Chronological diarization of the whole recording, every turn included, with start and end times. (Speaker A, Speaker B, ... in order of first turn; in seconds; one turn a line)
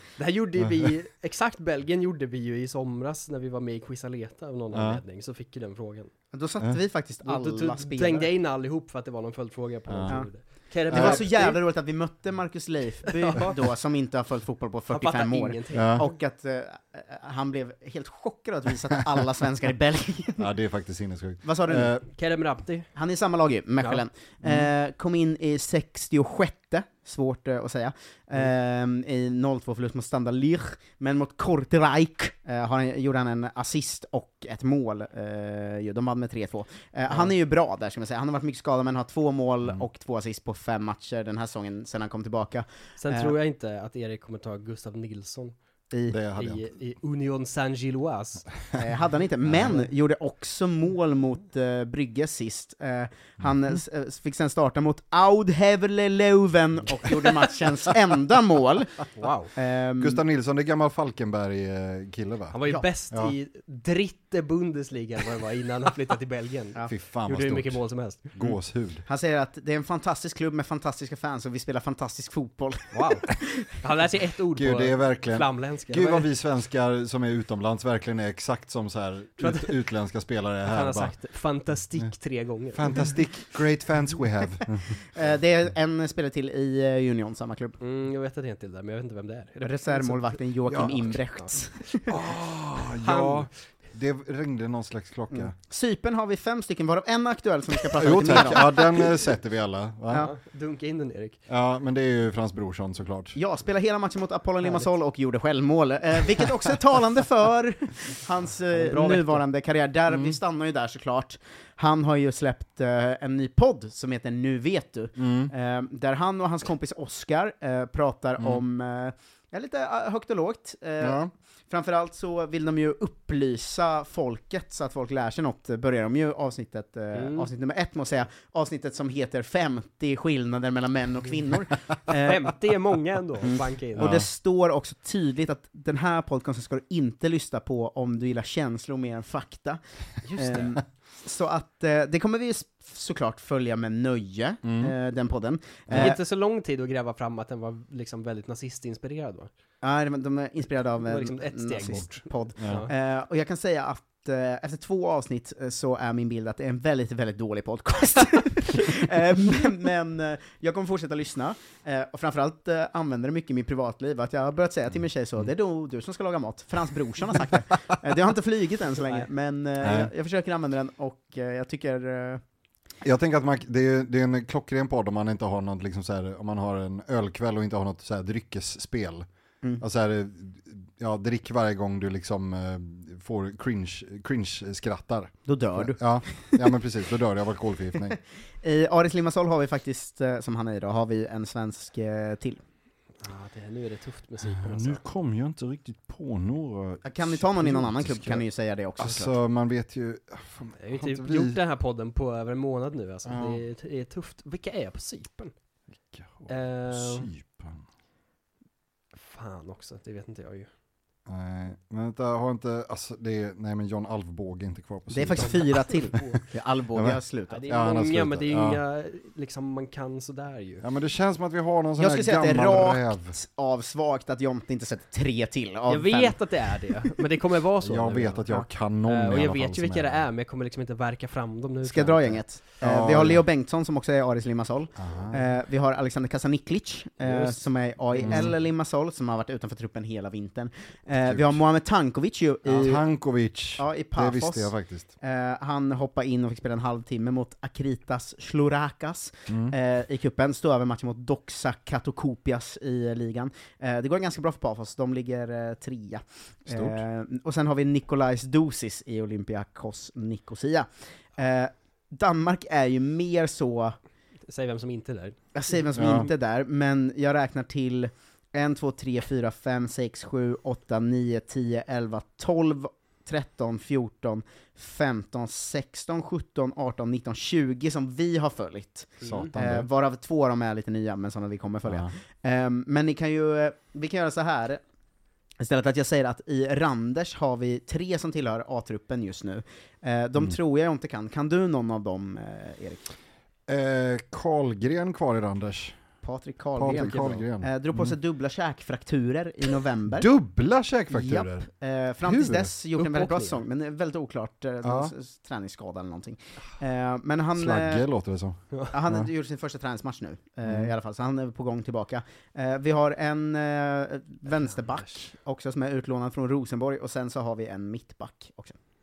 Speaker A: 0.2-6.1
Speaker B: 0.6-0.9
Speaker B: 4.7-5.0
Speaker C: 6.3-8.3
Speaker A: 7.2-11.6
Speaker B: 9.9-10.2
Speaker B: 10.9-11.2
Speaker C: 10.9-20.4
Speaker A: 13.1-13.6
Speaker A: 14.9-16.1
Speaker B: 15.7-16.1
Speaker B: 20.4-22.0
Speaker C: 21.4-21.9
Speaker A: 22.1-22.9
Speaker C: 22.9-43.3
Speaker A: 43.0-45.5
Speaker C: 45.9-46.2
Speaker B: 46.1-46.7
Speaker A: 46.4-48.5
Speaker C: 48.8-59.0
Speaker B: 49.5-49.7
Speaker A: 59.2-59.5
Speaker C: 59.5-60.2
Speaker B: 60.0-62.6
Speaker A: 62.5-68.5
Speaker B: 66.9-67.8
Speaker B: 68.3-69.0
Speaker C: 69.1-73.6
Speaker A: 72.9-76.3
Speaker B: 74.5-81.1
Speaker A: 79.4-79.8
Speaker A: 80.7-83.2
Speaker B: 82.7-85.0
Speaker C: 85.1-87.8
Speaker A: 87.8-91.6
Speaker C: 89.6-92.1
Speaker B: 92.1-95.5
Speaker A: 93.0-93.5
Speaker C: 95.3-99.0
Speaker B: 98.0-100.3
Speaker A: 100.1-101.4
Speaker B: 101.5-103.4
Speaker C: 103.3-132.5
Speaker A: 104.6-104.9
Speaker A: 108.7-109.4
Speaker B: 110.1-110.4
Speaker B: 115.2-115.5
Speaker B: 121.0-121.3
Speaker A: 127.2-127.5
Speaker A: 132.2-134.1
Speaker C: 134.0-139.8
Speaker B: 134.0-134.3
Speaker A: 140.3-140.8
Speaker C: 140.3-146.2
Speaker B: 144.6-144.9
Speaker B: 145.9-146.2
Speaker A: 145.9-149.5
Speaker C: 149.8-172.4
Speaker A: 151.0-152.9
Speaker B: 152.6-152.9
Speaker B: 169.8-170.1
Speaker B: 173.0-179.3
Speaker B: 179.8-188.2
Speaker C: 185.5-186.8
Speaker C: 188.6-192.6
Speaker A: 193.2-195.0
Speaker B: 194.4-198.4
Speaker C: 197.0-199.4
Speaker B: 199.0-201.6
Speaker A: 200.8-205.5
Speaker B: 203.2-203.6
Speaker B: 206.1-207.8
Speaker A: 206.5-207.3
Speaker A: 209.2-210.7
Speaker B: 211.3-215.7
Speaker C: 215.1-217.6
Speaker A: 215.4-216.4
Speaker B: 216.9-218.8
Speaker A: 217.5-220.8
Speaker B: 220.8-223.4
Speaker C: 222.0-226.4
Speaker A: 225.9-228.5
Speaker B: 227.8-230.3
Speaker A: 229.1-232.4
Speaker C: 231.8-243.0
Speaker B: 232.8-233.4
Speaker B: 235.0-235.4
Speaker A: 237.2-238.5
Speaker B: 238.2-238.5
Speaker B: 241.2-241.6
Speaker B: 242.7-245.1
Speaker C: 243.8-264.0
Speaker B: 249.5-249.8
Speaker B: 256.7-257.0
Speaker A: 264.5-265.4
Speaker C: 265.6-284.8
Speaker B: 265.9-266.3
Speaker A: 279.2-279.5
Speaker B: 279.2-279.9
Speaker B: 281.9-282.1
Speaker C: 285.6-293.1
Speaker B: 293.7-296.0
Speaker C: 296.2-300.3
Speaker B: 296.8-298.2
Speaker B: 300.1-301.7
Speaker C: 301.1-308.1
Speaker B: 302.2-302.7
Speaker A: 303.0-303.6
Speaker B: 304.8-305.1
Speaker B: 307.6-309.3
Speaker C: 308.9-318.8
Speaker B: 310.6-310.9
Speaker A: 314.5-315.2